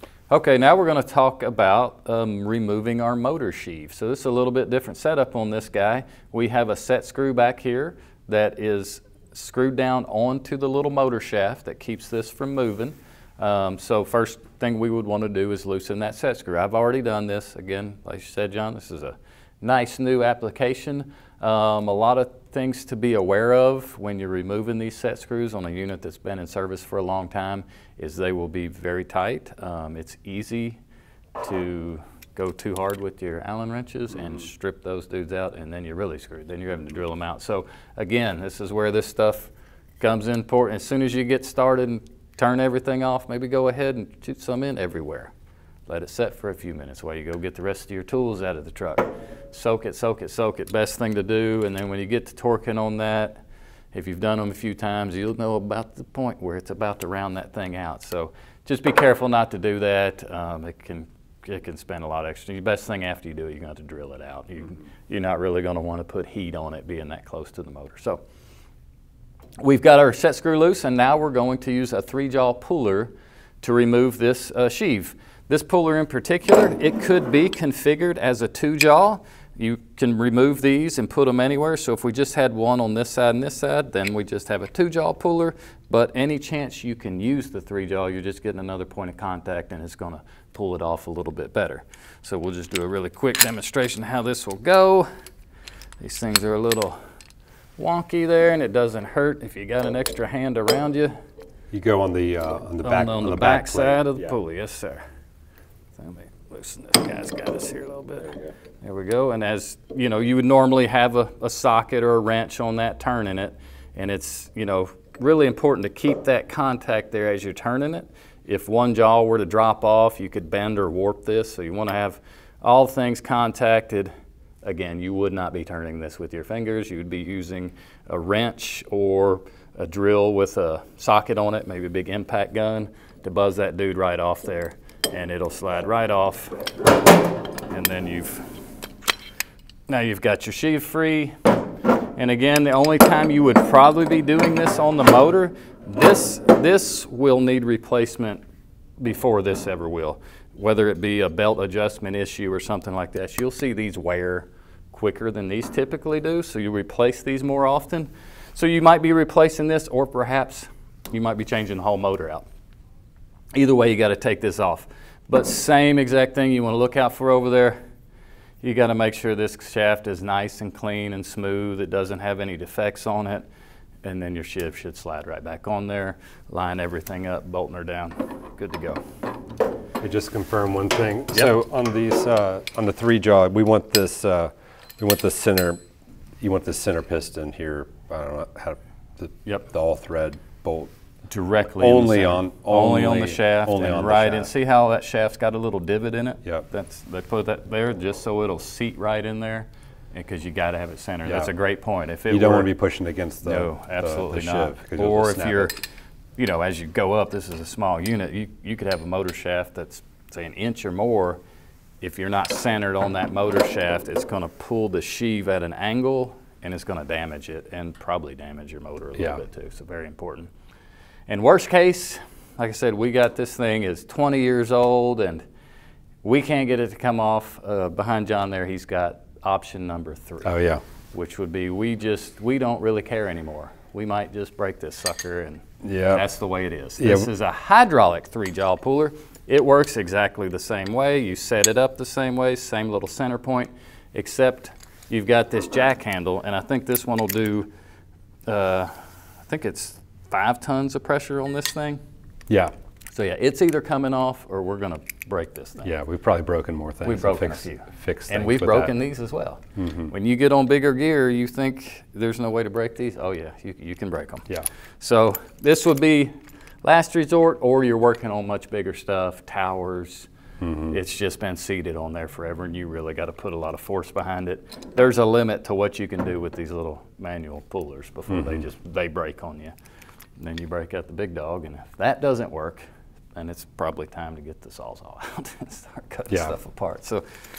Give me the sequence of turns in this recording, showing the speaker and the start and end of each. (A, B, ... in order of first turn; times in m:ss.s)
0:00.3-0:30.8 A
0:31.4-0:45.3 A
0:45.9-1:08.2 A
1:09.6-1:35.1 A
1:36.0-1:37.0 A
1:37.8-1:41.1 A
1:41.7-1:44.3 B
1:42.8-1:45.0 A
1:46.0-2:04.1 A
2:04.6-2:16.6 A
2:17.7-2:18.5 A
2:19.9-2:21.4 A
2:22.2-2:28.4 A
2:29.0-2:42.5 A
2:43.5-2:47.8 A
2:48.6-2:53.4 A
2:54.0-2:59.0 A
3:00.0-3:05.8 B
3:06.4-3:10.9 B
3:11.3-3:22.7 A
3:11.8-3:14.5 B
3:22.3-3:25.7 B
3:23.4-3:25.8 A
3:26.4-3:31.4 A
3:32.0-3:40.5 A
3:41.3-3:45.4 A
3:46.2-3:50.6 A
3:50.4-3:50.8 B
3:51.1-4:07.7 A
3:55.8-3:56.2 B
3:57.0-3:57.3 B
4:08.5-4:08.9 A
4:09.5-4:12.0 A
4:13.1-4:15.9 A
4:15.8-4:18.9 B
4:17.0-4:24.5 A
4:19.8-4:20.1 B
4:25.0-4:26.3 A
4:26.8-4:30.3 A
4:30.6-4:31.0 B
4:30.9-4:39.7 A
4:38.3-4:38.6 B
4:40.4-4:42.8 A
4:43.4-4:47.2 A